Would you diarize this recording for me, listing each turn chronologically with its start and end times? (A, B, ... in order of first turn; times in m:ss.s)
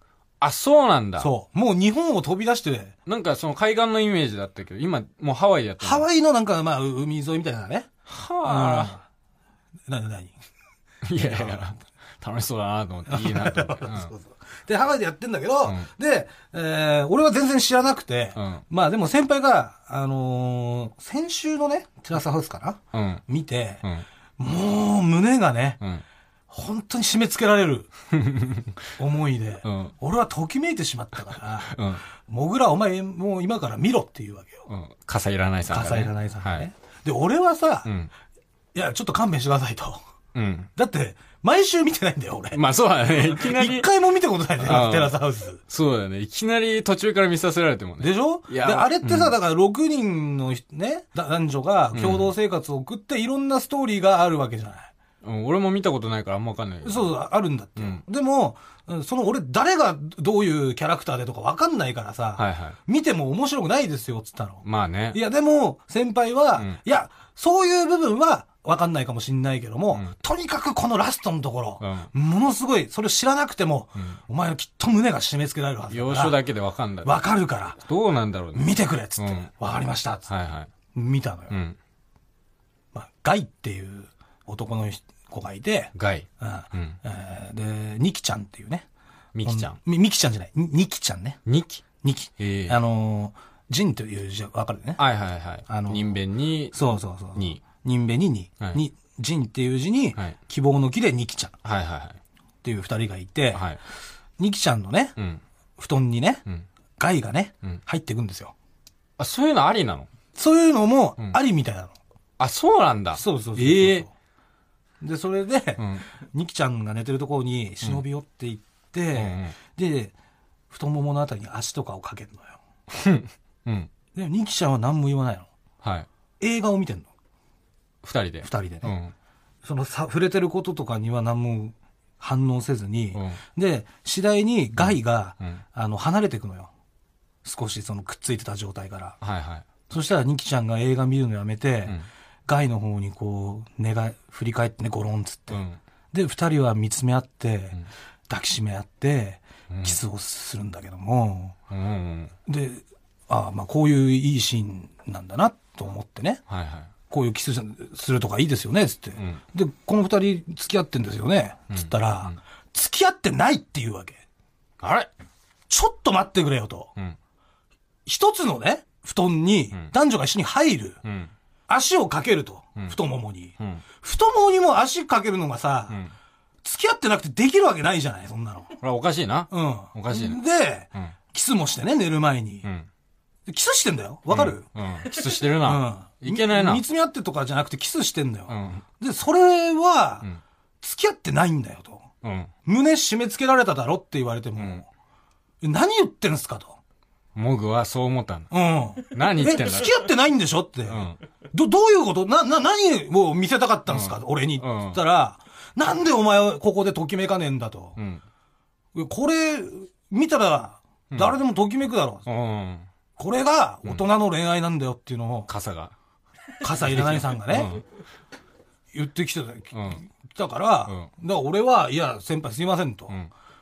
0:00.4-0:01.3 A
0:01.2-0:02.9 B
0:03.0-0:06.0 A
0:05.8-0:07.9 B
0:08.1-0:09.0 A
0:08.4-0:09.0 B
0:09.9-0:10.4 B
0:11.0-0:14.1 A
0:11.2-0:11.7 B
0:13.1-0:23.8 B
0:18.4-0:18.6 A
0:22.9-0:23.2 A
0:24.4-0:25.8 B
0:26.5-0:27.9 B
0:28.1-0:28.8 A
0:29.0-0:34.7 B
0:29.6-0:29.9 A
0:31.7-0:32.0 A
0:34.7-0:36.7 A
0:35.7-0:37.9 B
0:37.8-0:38.1 A
0:38.7-0:40.0 B
0:40.3-0:40.7 A
0:40.8-0:45.6 B
0:42.5-0:43.9 A
0:44.6-0:49.3 A
0:48.0-0:54.9 B
0:51.9-0:52.3 A
0:55.2-0:57.1 A
0:56.8-1:16.4 B
0:57.8-0:58.0 A
1:02.4-1:02.8 A
1:04.6-1:05.2 A
1:11.8-1:12.1 A
1:15.9-1:17.2 A
1:17.0-1:17.8 B
1:17.8-1:19.5 A
1:18.5-1:20.3 B
1:20.3-1:20.7 A
1:20.9-1:21.6 B
1:21.5-1:21.8 A
1:22.9-1:28.8 B
1:25.9-1:27.0 A
1:29.3-1:29.8 A
1:29.4-1:31.4 B
1:31.4-1:31.8 A
1:32.0-1:35.0 B
1:32.4-1:32.8 A
1:35.0-1:36.8 A
1:35.7-1:36.2 B
1:36.7-1:41.5 B
1:37.3-1:37.6 A
1:41.6-1:42.2 A
1:42.6-1:43.6 B
1:43.5-1:43.8 A
1:44.4-1:45.2 B
1:45.8-1:46.4 B
1:47.0-1:48.5 B
1:49.2-1:50.1 A
1:50.3-1:51.9 B
1:52.4-1:54.1 A
1:53.1-1:54.1 B
1:55.0-2:00.1 B
1:55.8-1:56.0 A
1:59.1-1:59.6 A
2:00.7-2:02.6 B
2:02.9-2:03.9 A
2:04.1-2:05.5 B
2:05.8-2:06.1 A
2:06.4-2:07.1 B
2:08.0-2:09.1 A
2:08.4-2:08.9 B
2:09.6-2:16.7 B
2:13.1-2:13.4 A
2:17.4-2:19.2 B
2:19.2-2:19.6 A
2:19.9-2:25.6 B
2:25.5-2:25.8 A
2:26.1-2:27.8 B
2:28.3-2:31.5 B
2:29.7-2:30.0 A
2:31.7-2:32.3 A
2:32.4-2:36.4 B
2:36.5-2:36.9 A
2:37.1-2:44.2 B
2:41.7-2:42.4 A
2:44.8-2:45.1 A
2:45.7-2:46.9 B
2:48.0-2:51.0 B
2:51.0-2:51.3 A
2:51.7-2:56.0 B
2:56.6-2:58.7 B
2:58.8-3:00.4 A
2:59.5-3:02.6 B
3:03.5-3:04.6 B
3:04.3-3:06.8 A
3:05.5-3:10.2 B
3:08.5-3:08.8 A
3:10.8-3:12.0 B
3:12.2-3:12.5 A
3:12.6-3:14.8 B
3:14.6-3:14.8 A
3:15.6-3:16.8 B
3:17.4-3:18.5 A
3:18.5-3:28.0 B
3:19.1-3:20.0 A
3:20.9-3:21.2 A
3:23.9-3:25.0 A
3:28.0-3:28.2 A
3:28.9-3:32.2 B
3:31.1-3:31.4 A
3:32.2-3:32.9 A
3:33.2-3:35.5 B
3:35.5-3:35.9 A
3:36.6-3:37.8 B
3:36.8-3:37.8 A
3:38.9-3:43.1 B
3:39.7-3:40.0 A